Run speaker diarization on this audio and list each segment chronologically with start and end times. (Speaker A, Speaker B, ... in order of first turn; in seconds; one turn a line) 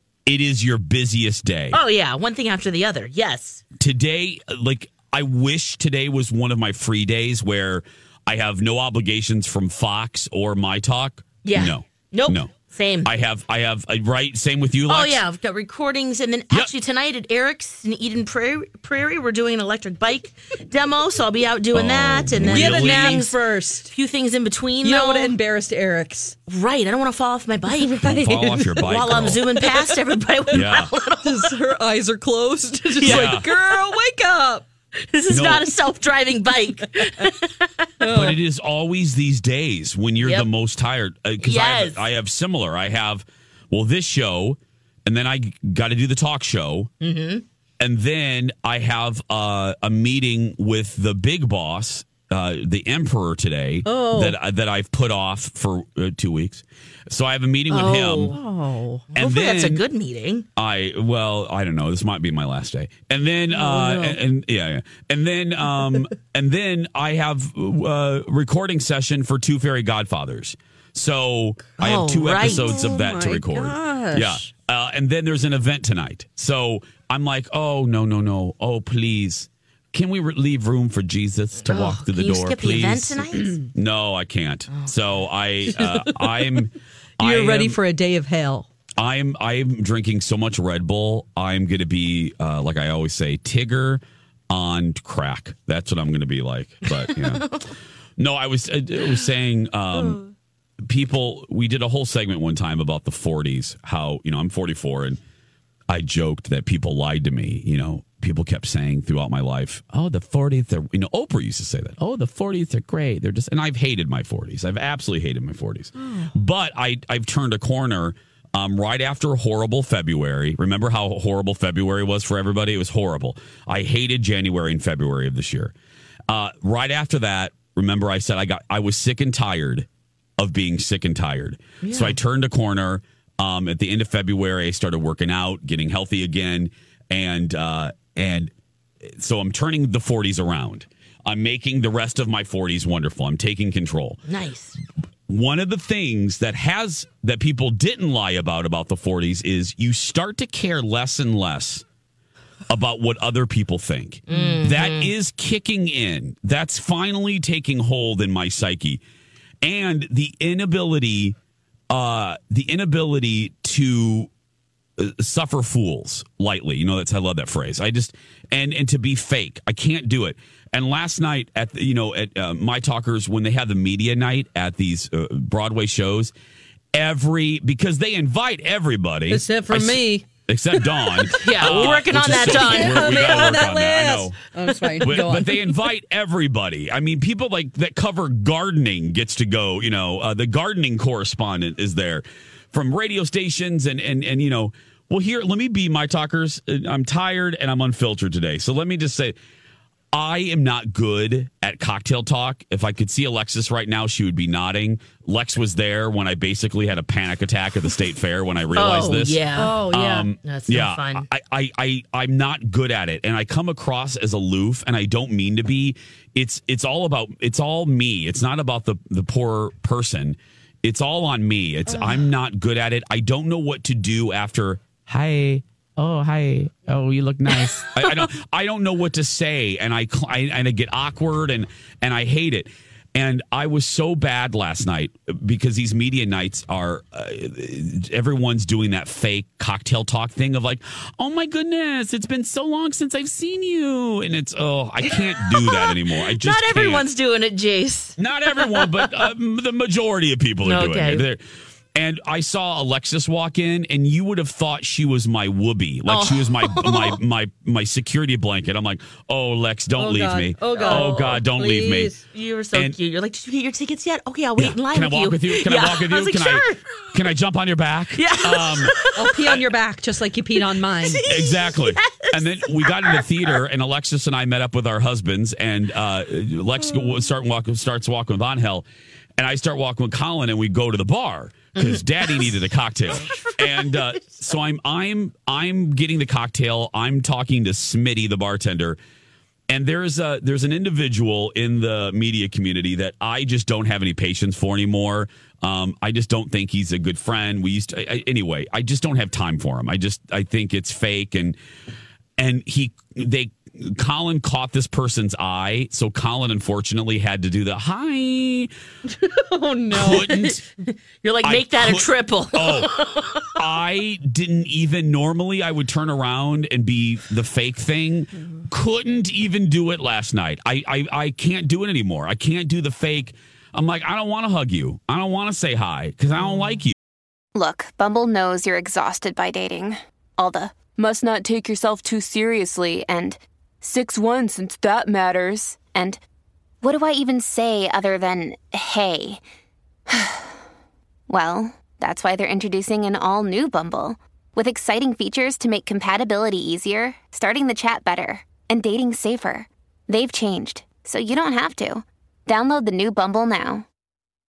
Speaker A: 0.3-1.8
Speaker B: 1.7-3.6
Speaker A: 3.8-12.5
Speaker B: 11.4-13.1
Speaker A: 13.0-15.2
Speaker B: 14.9-23.4
Speaker A: 21.7-23.2
Speaker C: 22.4-23.9
Speaker B: 23.9-25.4
Speaker C: 24.8-26.4
Speaker B: 26.5-28.1
Speaker C: 27.7-28.9
Speaker A: 28.0-29.5
Speaker B: 28.8-31.6
Speaker A: 30.5-30.9
Speaker C: 31.2-34.7
Speaker B: 33.0-33.8
Speaker A: 33.0-33.5
Speaker B: 35.0-38.3
Speaker A: 35.3-35.7
Speaker C: 38.0-38.4
Speaker A: 38.1-46.9
Speaker B: 40.2-40.5
Speaker B: 41.4-42.1
Speaker B: 47.0-47.4
Speaker A: 47.8-58.4
Speaker C: 53.9-54.4
Speaker B: 57.7-58.4
Speaker C: 58.3-59.1
Speaker B: 59.1-60.5
Speaker A: 59.2-59.8
Speaker A: 60.6-87.8
Speaker C: 63.5-64.2
Speaker B: 71.8-72.8
Speaker C: 72.4-74.5
Speaker B: 81.6-83.6
Speaker C: 85.8-86.2
Speaker C: 87.2-88.7
Speaker A: 89.0-97.6
Speaker A: 98.2-100.2
Speaker B: 99.9-100.2
Speaker A: 100.9-105.2
Speaker A: 105.9-125.7
Speaker C: 116.0-116.3
Speaker A: 126.3-129.9
Speaker A: 130.4-138.5
Speaker B: 131.8-132.2
Speaker A: 139.0-144.2
Speaker B: 144.3-144.8
Speaker A: 145.3-151.8
Speaker A: 152.7-159.0
Speaker B: 154.3-155.1
Speaker A: 159.6-161.4
Speaker A: 161.9-164.3
Speaker A: 165.0-176.3
Speaker A: 176.9-184.4
Speaker C: 179.3-180.3
Speaker C: 180.9-185.6
Speaker B: 181.4-183.7
Speaker B: 185.0-185.3
Speaker A: 185.0-199.4
Speaker A: 200.1-247.1
Speaker B: 208.7-209.8
Speaker C: 209.6-210.3
Speaker B: 210.4-211.3
Speaker B: 221.9-222.2
Speaker B: 227.5-228.3
Speaker B: 245.1-249.3
Speaker A: 248.2-251.4
Speaker B: 250.6-251.3
Speaker A: 251.9-262.1
Speaker B: 256.1-257.2
Speaker C: 260.0-262.2
Speaker B: 260.7-261.4
Speaker B: 262.3-266.9
Speaker A: 264.6-268.9
Speaker B: 268.2-269.5
Speaker C: 269.1-271.2
Speaker B: 270.6-273.6
Speaker A: 271.2-278.9
Speaker A: 279.4-289.0
Speaker B: 281.8-282.6
Speaker B: 283.2-284.3
Speaker A: 289.7-301.6
Speaker A: 302.4-308.7
Speaker C: 309.1-310.4
Speaker A: 309.9-310.6
Speaker B: 310.0-313.6
Speaker A: 311.4-312.9
Speaker A: 313.4-327.0
Speaker D: 327.6-336.2
Speaker D: 336.8-339.4
Speaker D: 340.1-340.6
Speaker D: 341.3-353.9